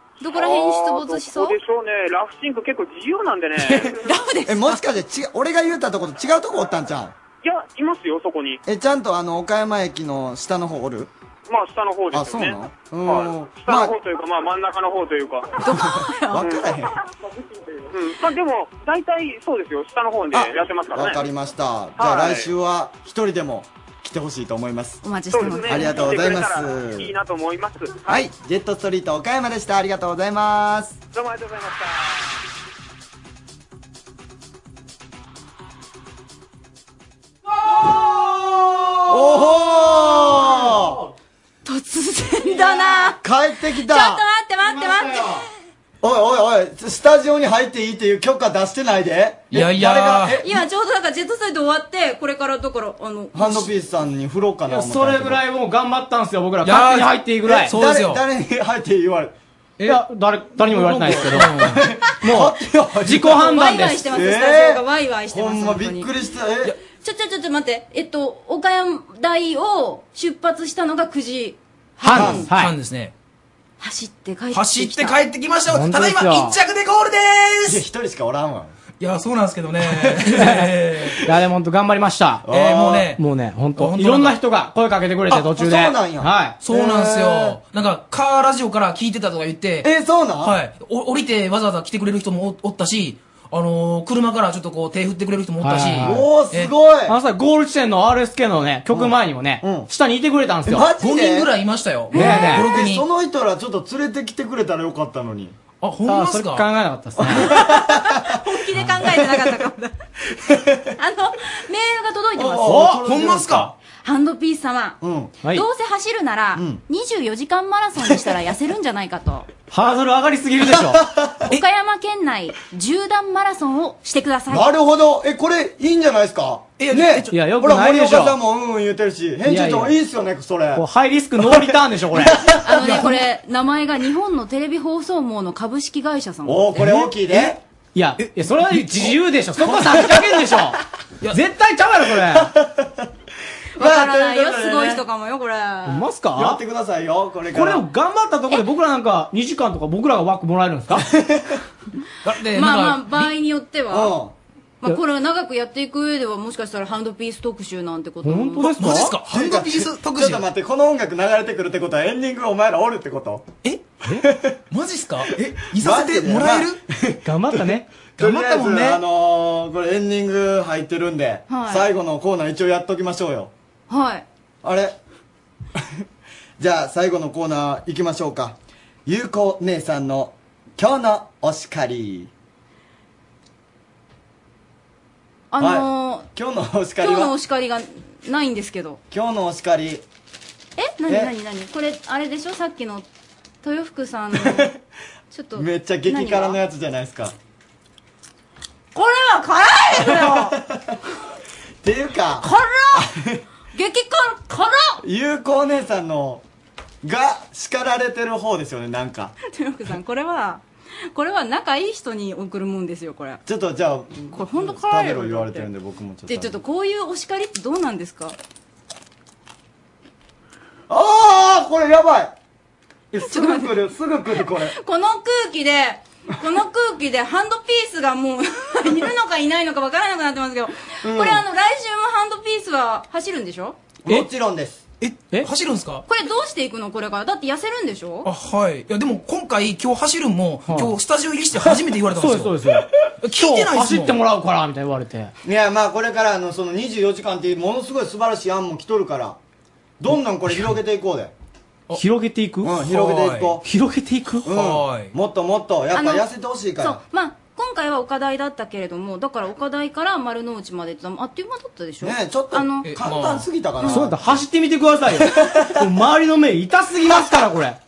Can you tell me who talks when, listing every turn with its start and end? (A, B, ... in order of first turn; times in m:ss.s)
0:00.2-0:01.6 A
0:00.2-0:04.0 B
0:03.8-0:04.9 A
0:04.4-0:07.1 C
0:07.4-0:08.6 B
0:08.6-0:11.1 C
0:11.5-0:15.6 B
0:12.1-0:14.0 C
0:15.6-0:16.5 A
0:15.7-0:16.9 C
0:16.4-0:16.8 B
0:17.8-0:21.2 B
0:20.3-0:27.1 C
0:22.0-0:22.5 B
0:25.0-0:26.1 A
0:25.3-0:28.2 B
0:28.1-0:31.0 C
0:31.1-0:32.2 B
0:39.1-0:41.0 C
0:41.6-0:43.2 A
0:43.2-0:44.2 C
0:43.8-0:45.4 A
0:45.0-0:45.2 D
0:46.0-0:50.4 C
0:49.5-0:50.4 E
0:50.4-0:53.7 A
0:53.3-0:55.4 C
0:54.6-0:57.7 D
0:56.6-0:58.2 E
0:57.6-0:59.3 C
0:59.8-1:01.8 E
0:59.8-1:01.7 D
1:01.8-1:03.5 C
1:02.2-1:02.5 D
1:03.0-1:04.0 D
1:03.2-1:06.1 A
1:04.1-1:06.7 C
1:07.0-1:12.5 A
1:12.0-1:12.7 D
1:12.1-1:13.1 E
1:12.1-1:12.4 C
1:13.8-1:15.2 A
1:14.5-1:17.8 E
1:15.7-1:16.5 D
1:17.7-1:18.7 C
1:19.0-1:21.3 E
1:21.3-1:22.5 D
1:22.5-1:23.1 C
1:22.5-1:23.2 E
1:23.2-1:26.6 D
1:23.8-1:24.4 E
1:25.3-1:27.6 C
1:26.6-1:29.8 E
1:29.8-1:30.5 C
1:30.4-1:36.7 E
1:35.6-1:36.3 D
1:36.0-1:37.1 C
1:37.0-1:40.9 D
1:38.9-1:39.9 C
1:40.6-1:41.5 C
1:41.0-1:43.0 E
1:42.1-1:42.5 A
1:42.1-1:42.6 D
1:42.2-1:45.5 C
1:45.8-1:46.7 E
1:46.0-1:47.6 D
1:47.5-1:47.8 A
1:47.6-1:48.4 C
1:48.3-1:49.9 A
1:50.4-1:50.8 C
1:51.0-1:52.7 A
1:52.4-1:53.7 C
1:52.7-1:53.0 D
1:52.9-1:53.7 E
1:54.0-1:59.5 A
1:55.0-1:55.3 C
1:56.5-1:56.8 C
1:59.7-2:01.0 D
2:00.9-2:01.4 C
2:01.5-2:04.7 A
2:04.5-2:10.8 C
2:06.8-2:07.5 E
2:07.3-2:08.4 D
2:09.4-2:10.0 D
2:10.7-2:13.1 D
2:11.4-2:13.1 C
2:12.6-2:16.9 A
2:16.4-2:17.6 C
2:16.8-2:17.5 E
2:17.9-2:20.8 D
2:18.2-2:18.9 E
2:21.3-2:22.5 D
2:22.6-2:23.0 C
2:23.8-2:25.0 C
2:23.8-2:26.0 A
2:25.8-2:26.6 D
2:26.4-2:27.8 C
2:27.5-2:31.1 D
2:32.2-2:33.3 E
2:32.5-2:34.1 A
2:33.9-2:34.3 C
2:34.8-2:38.6 A
2:38.2-2:39.1 D
2:38.6-2:40.5 E
2:39.3-2:43.5 C
2:43.6-2:44.0 E
2:44.7-2:46.8 E
2:45.8-2:47.3 C
2:47.2-2:49.0 D
2:48.2-2:53.5 C
2:51.5-2:51.8 A
2:53.9-2:54.2 A
2:54.6-2:55.0 C
2:56.6-3:02.3 C
3:05.5-3:06.3 A
3:05.6-3:07.3 C
3:07.0-3:09.0 A
3:09.1-3:10.0 C
3:10.8-3:13.0 A
3:11.1-3:11.3 C
3:13.6-3:14.7 A
3:14.4-3:14.8 C
3:15.3-3:16.6 A
3:15.5-3:17.3 C
3:19.6-3:20.2 A
3:20.4-3:20.8 C
3:21.8-3:23.4 C
3:22.5-3:22.8 A
3:23.7-3:24.6 A
3:25.0-3:26.4 C
3:27.0-3:29.3 C
3:29.5-3:33.4 A
3:33.4-3:36.6 C
3:34.3-3:35.7 A
3:36.3-3:38.4 A
3:40.9-3:42.3 C
3:43.1-3:44.7 C
3:43.2-3:43.8 A
3:44.7-3:53.8 A
3:51.0-3:51.4 C
3:54.0-3:54.8 C
3:55.0-3:56.0 E
3:56.1-3:58.3 A
3:58.2-4:04.2 E
4:00.7-4:00.9 D
4:01.6-4:05.3 D
4:05.4-4:09.4 C
4:10.0-4:11.3 C
4:11.9-4:12.7 D
4:12.6-4:13.6 C
4:12.7-4:13.6 E
4:13.6-4:14.5 D
4:14.4-4:17.0 C
4:14.5-4:15.1 E
4:15.9-4:16.2 A
4:16.8-4:22.9 A
4:22.0-4:24.2 C
4:22.8-4:23.5 E
4:23.8-4:24.1 A
4:23.8-4:27.8 D
4:25.3-4:25.7 C